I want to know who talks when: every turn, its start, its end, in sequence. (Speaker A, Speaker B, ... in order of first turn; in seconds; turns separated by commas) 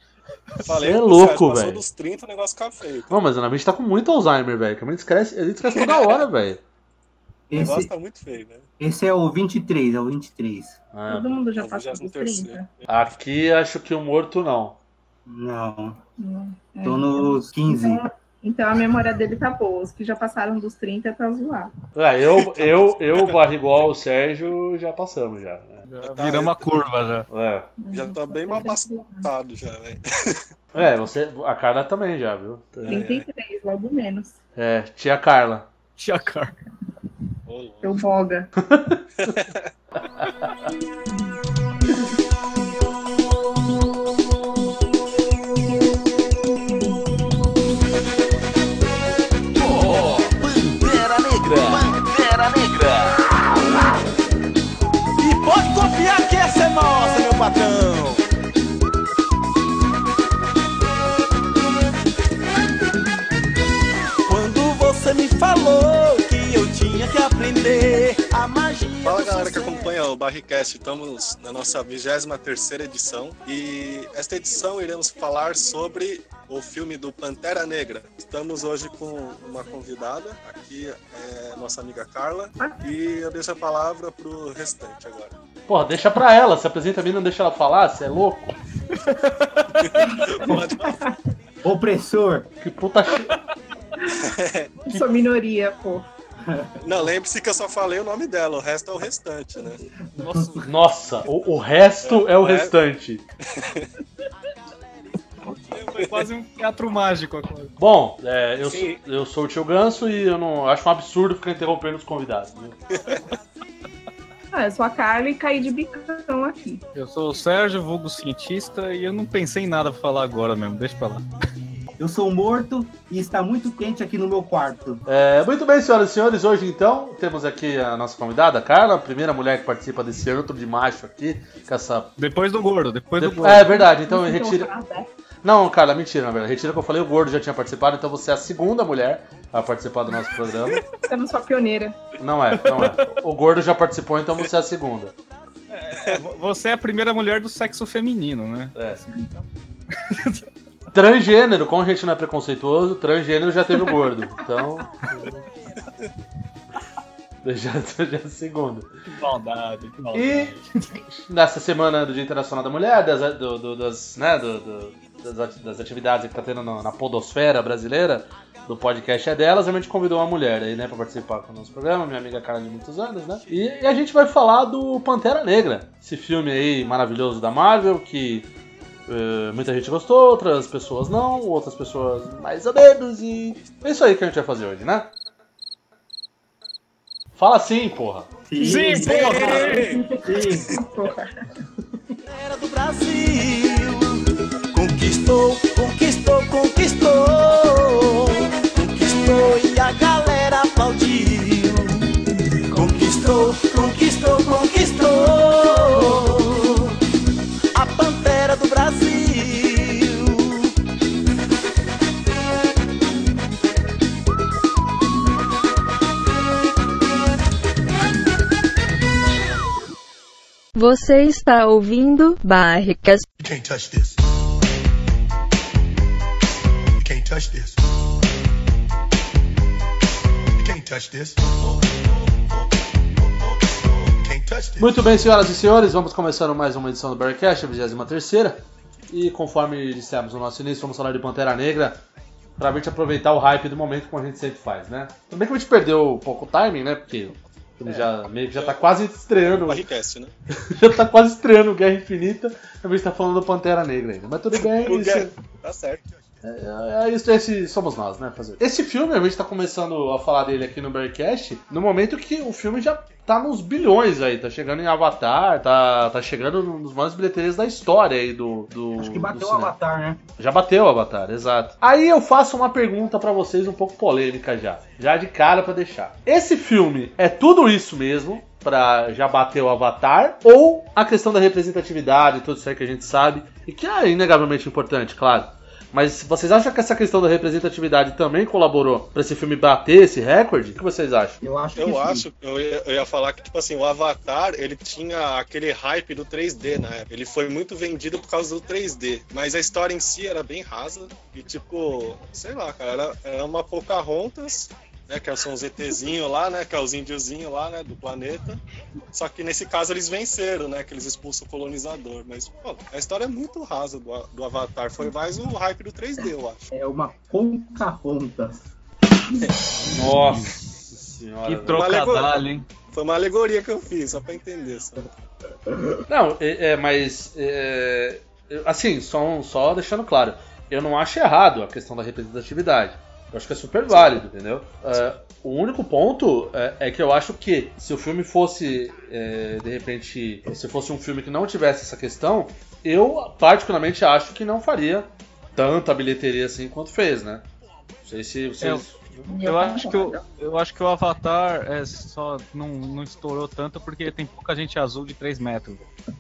Speaker A: 0.6-3.2, Speaker B: 0.7-1.8, Speaker B: 3.1-6.6, Speaker A: 5.7-6.2, Speaker C: 7.5-7.9, Speaker A: 7.5-8.7, Speaker C: 8.8-10.8, Speaker B: 10.9-11.4, Speaker D: 11.1-12.7, Speaker A: 11.6-12.6, Speaker B: 12.9-14.8, Speaker C: 15.3-16.0, Speaker D: 16.2-21.7, Speaker C: 16.8-18.0, Speaker B: 21.9-25.9, Speaker A: 22.3-23.4, Speaker E: 25.9-27.3, Speaker A: 26.0-26.6, Speaker B: 27.3-27.7, Speaker D: 27.8-29.3, Speaker A: 27.9-30.4, Speaker B: 30.7-33.2, Speaker A: 32.9-33.2, Speaker D: 32.9-34.4, Speaker B: 34.6-35.7, Speaker E: 36.0-36.5, Speaker A: 37.5-38.0, Speaker D: 37.8-38.5, Speaker B: 38.6-39.4, Speaker A: 39.2-39.7, Speaker B: 40.0-40.7, Speaker F: 49.6-53.8, Speaker F: 55.2-58.2, Speaker F: 64.3-69.9, Speaker A: 69.0-85.4, Speaker B: 85.7-88.5, Speaker A: 89.8-91.2, Speaker C: 91.6-92.5, Speaker B: 92.6-93.4, Speaker A: 94.1-94.7, Speaker D: 94.9-96.1, Speaker C: 96.5-96.8, Speaker A: 96.8-99.8, Speaker E: 100.2-100.7, Speaker C: 100.2-100.5, Speaker B: 100.6-103.2, Speaker A: 102.0-102.7, Speaker A: 103.5-103.9, Speaker A: 105.7-106.3, Speaker E: 105.8-107.7, Speaker B: 107.8-112.8, Speaker A: 108.6-109.0, Speaker A: 113.0-113.2, Speaker D: 114.5-116.8, Speaker E: 117.0-121.2, Speaker C: 122.0-125.0, Speaker B: 125.1-132.1, Speaker E: 132.2-133.7, Speaker B: 133.2-134.7, Speaker D: 133.6-135.1, Speaker B: 135.4-140.8, Speaker D: 141.0-142.0, Speaker B: 142.2-145.1, Speaker E: 142.5-143.1, Speaker E: 145.7-149.3, Speaker B: 148.8-149.0, Speaker E: 149.9-150.4, Speaker B: 150.9-155.4, Speaker B: 157.4-158.9, Speaker E: 159.1-161.0, Speaker B: 160.1-160.6, Speaker B: 161.3-178.5, Speaker B: 179.1-185.1, Speaker B: 187.4-188.3, Speaker C: 188.5-189.6, Speaker E: 188.6-189.9, Speaker D: 188.6-191.3, Speaker A: 189.0-190.1, Speaker C: 190.2-190.8, Speaker F: 192.3-194.2, Speaker F: 194.7-202.1, Speaker F: 202.7-207.0, Speaker F: 207.7-210.7, Speaker G: 220.8-223.2, Speaker H: 223.4-224.2, Speaker H: 227.0-227.8, Speaker H: 230.6-231.8, Speaker H: 234.1-234.9, Speaker B: 234.8-242.0, Speaker B: 242.6-249.9, Speaker A: 249.3-250.3, Speaker B: 250.6-255.3, Speaker A: 254.6-256.1, Speaker B: 256.4-269.7, Speaker C: 269.0-270.2, Speaker B: 270.4-291.4, Speaker C: 291.4-292.2, Speaker A: 291.8-308.6, Speaker A: 309.1-316.7, Speaker C: 316.7-318.6, Speaker B: 319.9-321.8, Speaker E: 321.5-322.7, Speaker A: 321.7-325.1, Speaker B: 326.1-347.4, Speaker A: 333.9-334.2, Speaker B: 348.0-349.3, Speaker D: 349.3-350.2, Speaker E: 349.4-355.9